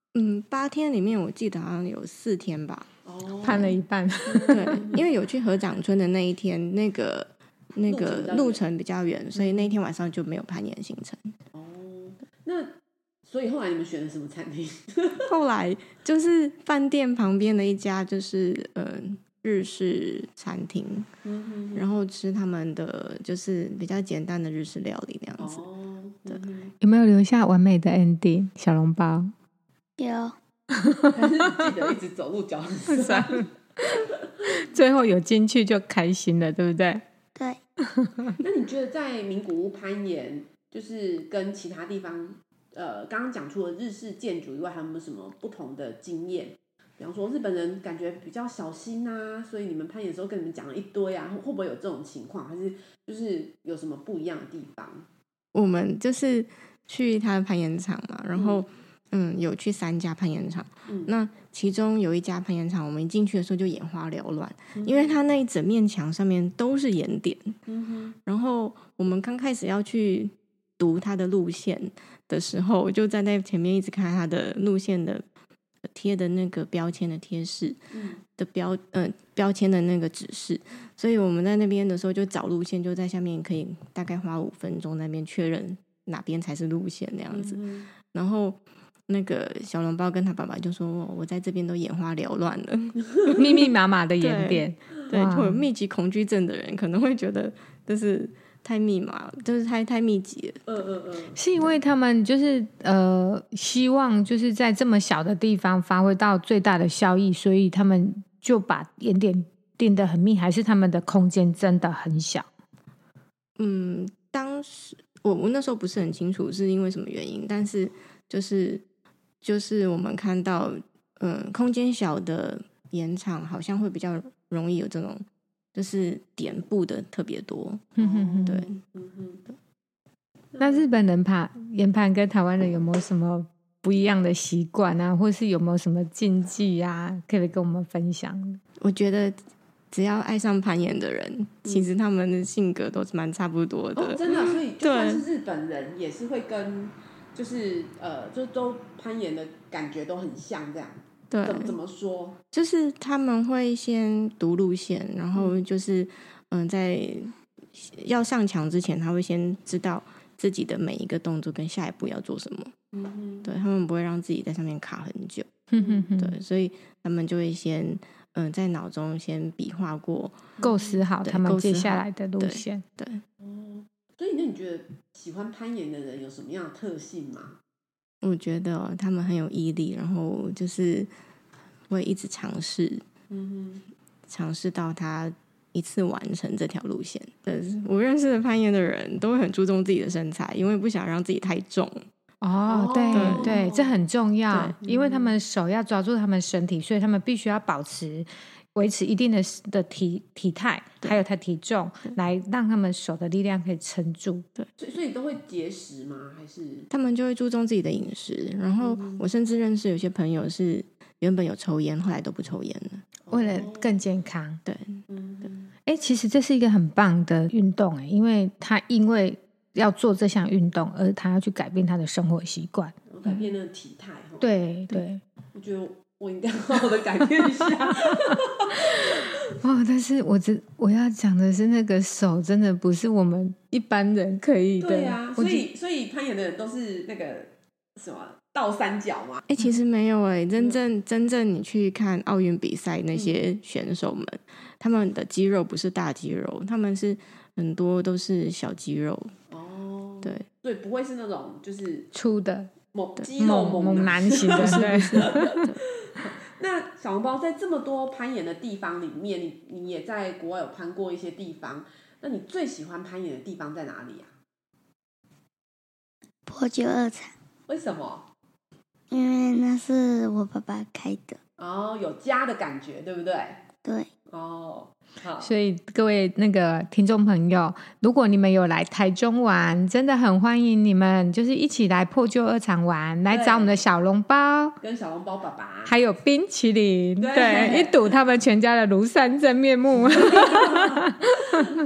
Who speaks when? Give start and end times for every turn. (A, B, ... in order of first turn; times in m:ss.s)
0:00.1-0:02.9 A
0:03.0-0:05.1 B
0:03.4-0:04.8 C
0:04.5-0:11.3 A
0:07.8-0:08.6 B
0:09.3-0:09.7 B
0:11.5-0:15.3 B
0:15.3-0:21.1 A
0:21.2-0:21.9 B
0:21.7-0:25.6 A
0:25.4-0:26.7 B
0:26.8-0:29.3 C
0:30.0-0:30.3 D
0:30.7-0:31.1 C
0:31.1-0:34.1 B
0:32.9-0:33.5 C
0:34.6-0:37.0 C
0:37.9-0:38.4 C
0:38.4-0:55.0 B
0:55.5-1:07.6 A
0:58.3-0:58.6 B
1:00.9-1:01.1 B
1:04.7-1:05.2 B
1:07.7-1:08.2 B
1:08.2-1:15.2 A
1:15.9-1:17.8 A
1:17.9-1:18.2 B
1:18.4-1:33.6 A
1:27.3-1:27.9 B
1:33.1-1:33.5 B
1:33.4-1:35.7 C
1:34.2-1:40.6 A
1:40.7-1:41.4 B
1:41.4-1:52.4 C
1:53.6-1:58.8 A
1:59.4-2:07.9 A
2:07.9-2:08.6 C
2:08.0-2:09.4 B
2:08.4-2:08.8 A
2:10.5-2:10.9 B
2:10.6-2:18.6 C
2:18.8-2:19.4 A
2:19.9-2:25.2 A
2:23.9-2:32.4 B
2:31.3-2:31.8 A
2:32.5-2:42.7 A
2:42.9-2:43.5 B
2:43.4-2:45.5 A
2:45.7-2:46.4 C
2:45.8-2:46.1 B
2:46.2-2:50.5 A
2:50.6-2:51.0 B
2:50.6-2:52.8 C
2:51.2-2:53.2 A
2:53.4-2:57.6 B
2:58.2-3:01.1 A
3:01.9-3:03.0 A
3:03.3-3:03.8 B
3:04.3-3:12.0 A
3:12.4-3:24.4 C
3:12.6-3:14.0 B
3:13.1-3:13.6 A
3:14.5-3:14.8 A
3:14.8-3:15.3 B
3:24.8-3:26.9 B
3:26.9-3:33.0 A
3:28.8-3:29.2 B
3:33.2-3:34.0 B
3:33.3-3:34.6 C
3:34.6-3:35.0 A
3:35.1-3:35.7 B
3:35.8-3:43.4 C
3:43.1-3:44.5 B
3:44.4-3:45.2 C
3:45.5-3:49.3 B
3:48.0-3:48.4 C
3:49.6-3:55.6 C
3:54.8-3:59.4 B
3:59.5-4:09.3 A
4:03.1-4:03.4 B
4:09.5-4:12.1 B
4:12.1-4:12.7 C
4:12.9-4:24.3 B
4:13.4-4:15.6 C
4:14.5-4:15.8 A
4:26.5-4:27.3 D
4:27.7-4:28.3 B
4:29.1-4:31.4 D
4:31.6-4:33.6 B
4:33.8-4:34.1 D
4:34.3-4:35.5 B
4:35.4-4:44.8 C
4:43.3-4:43.8 B
4:44.8-4:45.9 B
4:45.8-4:51.6 C
4:47.2-4:48.0 B
4:50.0-4:51.0 B